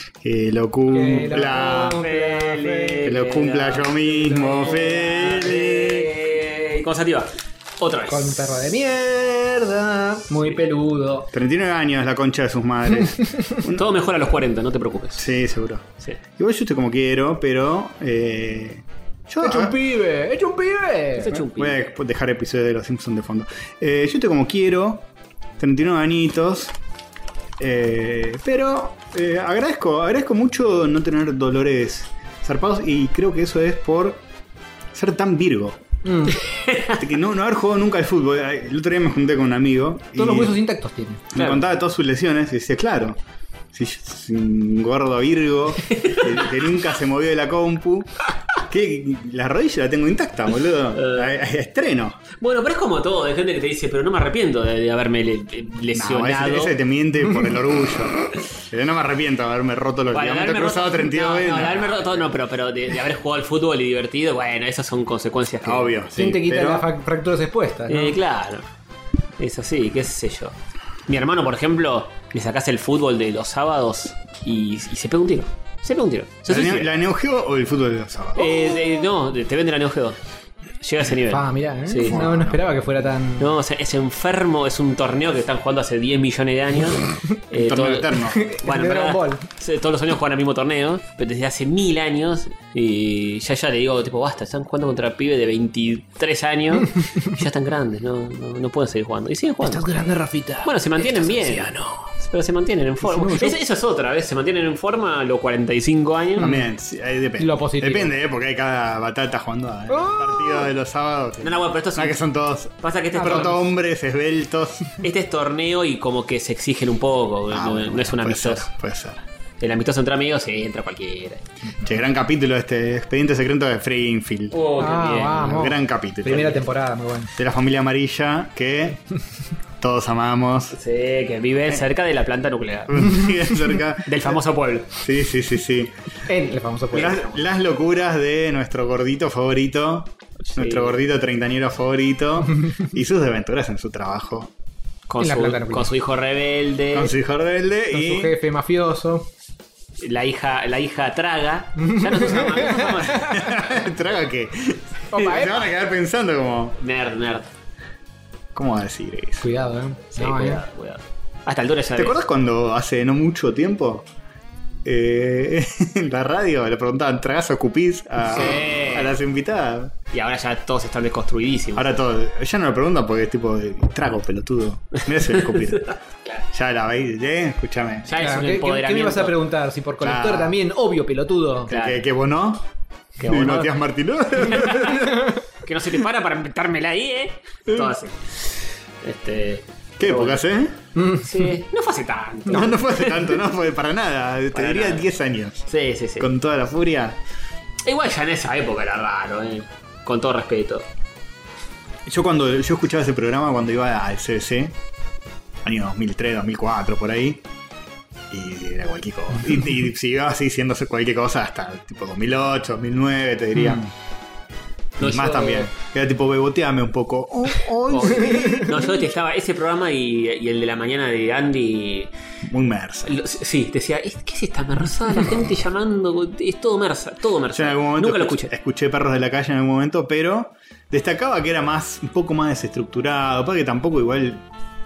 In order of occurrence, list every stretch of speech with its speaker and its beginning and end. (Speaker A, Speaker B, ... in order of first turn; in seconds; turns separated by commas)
Speaker A: 0.2-2.0, Speaker B: 0.9-3.1, Speaker C: 1.3-8.6, Speaker A: 3.0-6.1, Speaker B: 8.1-11.3, Speaker A: 11.3-13.9, Speaker C: 13.7-15.3, Speaker A: 15.2-19.8, Speaker B: 19.4-21.3, Speaker C: 21.2-21.8, Speaker A: 21.3-25.1, Speaker A: 25.6-26.7, Speaker A: 27.6-34.2, Speaker A: 34.9-35.8, Speaker B: 36.0-36.4, Speaker C: 36.5-37.0, Speaker A: 37.0-40.6, Speaker B: 40.2-41.2, Speaker A: 41.3-43.2, Speaker C: 41.4-41.6, Speaker A: 43.7-48.1, Speaker C: 45.9-46.4, Speaker A: 48.6-52.2, Speaker C: 51.0-51.3, Speaker C: 52.4-56.8, Speaker A: 55.9-62.3, Speaker C: 60.1-65.9, Speaker A: 65.6-66.9, Speaker B: 66.2-68.2, Speaker C: 67.9-68.6, Speaker C: 69.4-70.5, Speaker C: 71.1-76.9, Speaker A: 76.5-78.8, Speaker C: 78.4-80.2, Speaker C: 80.8-82.2, Speaker B: 81.3-83.5, Speaker A: 82.0-82.6, Speaker C: 83.4-99.8, Speaker A: 87.5-88.4, Speaker B: 88.3-89.4, Speaker B: 99.6-102.1, Speaker C: 100.6-106.5, Speaker B: 103.0-103.6, Speaker A: 106.4-115.0, Speaker B: 107.4-108.1, Speaker B: 109.9-110.7, Speaker C: 111.4-112.2, Speaker C: 112.8-113.7, Speaker B: 113.2-113.5, Speaker C: 115.0-118.7, Speaker A: 117.5-119.2, Speaker C: 119.6-121.4, Speaker A: 121.8-124.6, Speaker C: 124.5-125.6, Speaker B: 124.8-127.3, Speaker A: 125.3-126.6, Speaker A: 127.4-129.0, Speaker A: 129.8-130.8, Speaker C: 130.7-133.1, Speaker A: 132.9-134.3, Speaker C: 134.1-134.9, Speaker A: 135.0-135.9, Speaker B: 136.3-137.1, Speaker C: 136.9-137.4, Speaker A: 136.9-144.5, Speaker C: 140.5-140.9, Speaker C: 145.1-147.1, Speaker B: 145.2-145.9, Speaker A: 146.9-148.3, Speaker B: 147.9-149.2, Speaker C: 150.0-153.3, Speaker B: 151.8-153.3, Speaker A: 153.1-156.8, Speaker B: 155.1-155.6, Speaker C: 155.2-155.5, Speaker C: 156.8-157.5, Speaker A: 158.5-159.4, Speaker B: 159.4-160.6, Speaker C: 160.2-162.2, Speaker A: 161.9-164.1, Speaker A: 164.8-169.9, Speaker C: 168.2-169.1, Speaker C: 170.1-171.9, Speaker A: 171.7-175.9, Speaker A: 176.5-178.1, Speaker C: 178.1-179.4, Speaker B: 178.2-181.7, Speaker A: 180.0-180.6, Speaker C: 181.7-182.0, Speaker A: 181.7-182.6, Speaker C: 183.2-183.7, Speaker A: 183.2-185.3, Speaker C: 184.5-190.4, Speaker A: 190.0-190.7, Speaker B: 190.9-191.3, Speaker C: 191.2-193.4, Speaker A: 192.5-195.7, Speaker C: 194.5-195.1, Speaker C: 195.7-196.3, Speaker A: 196.2-197.2, Speaker C: 197.8-200.8, Speaker A: 202.1-204.7, Speaker A: 205.6-207.4, Speaker A: 208.3-213.9, Speaker C: 215.0-215.7, Speaker A: 215.0-218.8, Speaker C: 217.9-222.1, Speaker A: 222.4-223.1, Speaker C: 223.0-228.5, Speaker A: 227.5-234.4